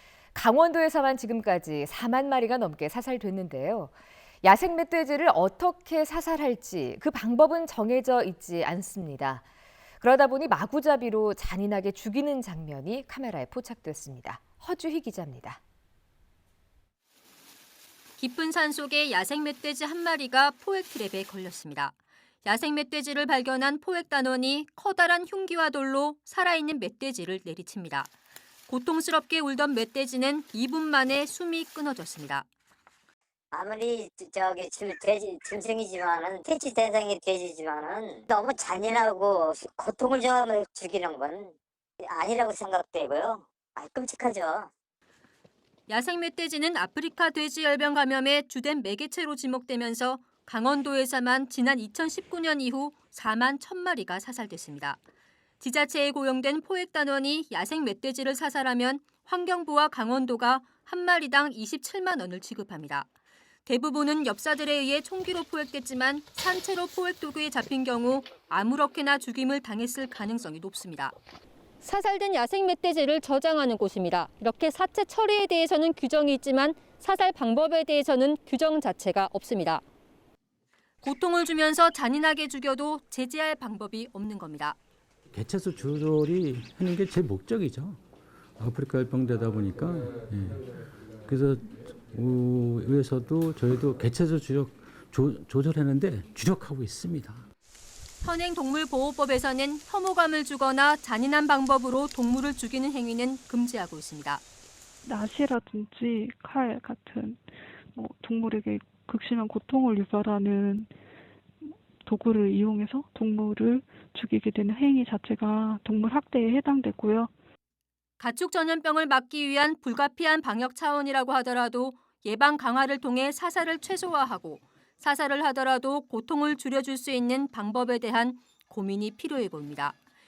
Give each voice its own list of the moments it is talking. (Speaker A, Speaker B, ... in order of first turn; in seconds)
Speaker A: 0.3-9.4, 10.0-15.6
Speaker B: 18.2-21.9, 22.4-28.1, 28.7-32.5, 45.9-55.0, 55.6-63.1, 63.7-71.2, 71.8-79.8, 81.0-84.8, 98.2-104.4, 118.2-130.0
Speaker C: 33.5-44.7
Speaker D: 85.3-88.0, 88.6-97.5
Speaker E: 105.0-107.4, 108.0-110.9, 111.6-117.3